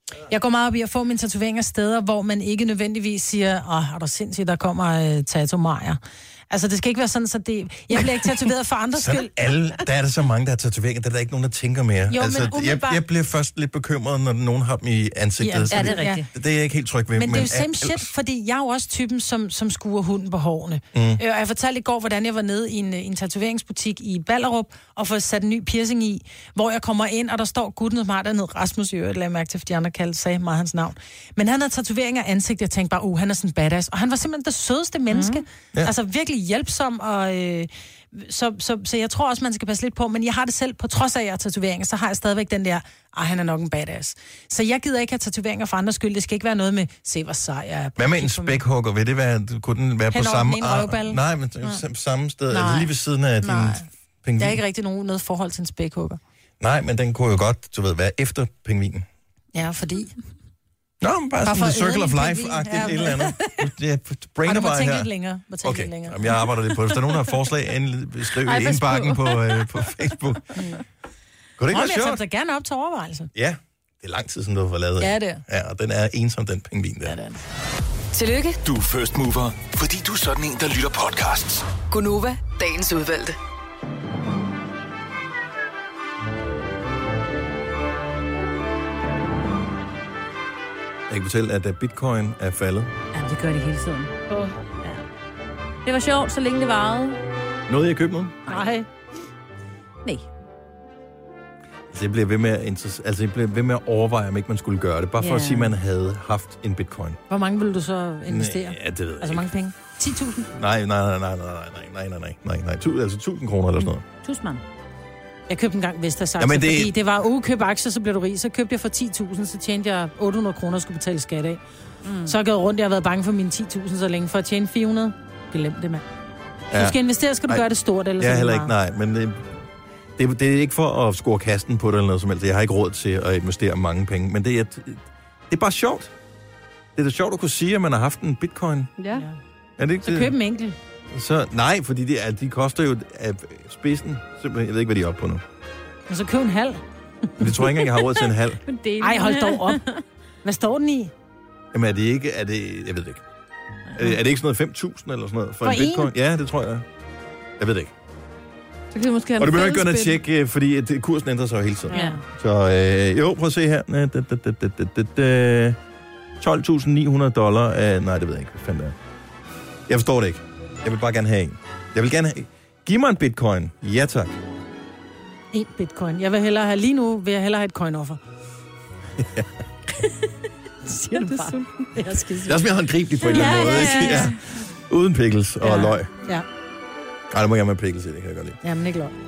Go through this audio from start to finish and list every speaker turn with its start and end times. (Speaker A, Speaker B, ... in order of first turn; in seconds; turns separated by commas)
Speaker A: 0.3-9.3, Speaker B: 9.0-18.1, Speaker A: 12.1-13.0, Speaker A: 15.4-16.2, Speaker C: 15.7-16.3, Speaker A: 17.2-48.6, Speaker B: 20.9-21.2, Speaker C: 35.1-35.4, Speaker B: 48.0-54.6, Speaker A: 50.1-51.8, Speaker A: 52.5-53.9, Speaker A: 54.4-56.2, Speaker B: 56.6-59.1, Speaker A: 59.5-60.1, Speaker B: 61.0-65.1, Speaker A: 61.4-63.6, Speaker A: 64.5-66.5, Speaker B: 65.6-70.7, Speaker A: 68.5-69.3, Speaker A: 70.5-70.8, Speaker B: 71.6-72.2, Speaker A: 71.7-73.3, Speaker B: 73.3-77.2, Speaker A: 75.0-75.4, Speaker A: 77.0-77.4, Speaker D: 78.1-78.6, Speaker E: 78.6-81.7, Speaker D: 81.9-83.4, Speaker B: 91.1-92.9, Speaker C: 93.1-94.2, Speaker C: 95.8-97.2, Speaker B: 97.7-98.4, Speaker A: 98.5-98.9, Speaker B: 101.9-107.2, Speaker C: 105.2-105.7, Speaker A: 107.3-110.5, Speaker B: 108.3-109.5, Speaker B: 110.5-114.0, Speaker C: 114.2-114.6, Speaker A: 115.5-121.6, Speaker B: 116.4-116.9, Speaker C: 122.0-122.3, Speaker A: 122.3-126.0, Speaker B: 126.7-127.7, Speaker A: 126.7-128.7, Speaker B: 128.2-129.5, Speaker B: 130.2-136.1, Speaker B: 137.0-138.9, Speaker F: 139.0-139.3, Speaker B: 139.8-140.3, Speaker A: 140.0-140.8, Speaker B: 141.1-145.4, Speaker A: 146.1-147.7, Speaker B: 147.4-148.6, Speaker C: 148.7-150.0, Speaker A: 149.0-149.8, Speaker A: 150.4-151.1, Speaker B: 151.7-153.2, Speaker B: 153.9-156.9, Speaker A: 155.6-156.1, Speaker B: 157.6-157.9, Speaker F: 158.9-160.2, Speaker B: 159.4-165.8, Speaker A: 161.9-162.2, Speaker C: 161.9-162.2, Speaker B: 166.4-168.9, Speaker B: 169.9-174.4, Speaker A: 175.5-178.2, Speaker B: 179.2-179.5, Speaker A: 180.8-182.6, Speaker F: 181.1-182.2, Speaker B: 182.4-186.1, Speaker A: 183.3-184.3, Speaker C: 183.3-184.4, Speaker A: 185.6-186.5, Speaker B: 187.3-188.6, Speaker A: 188.6-189.1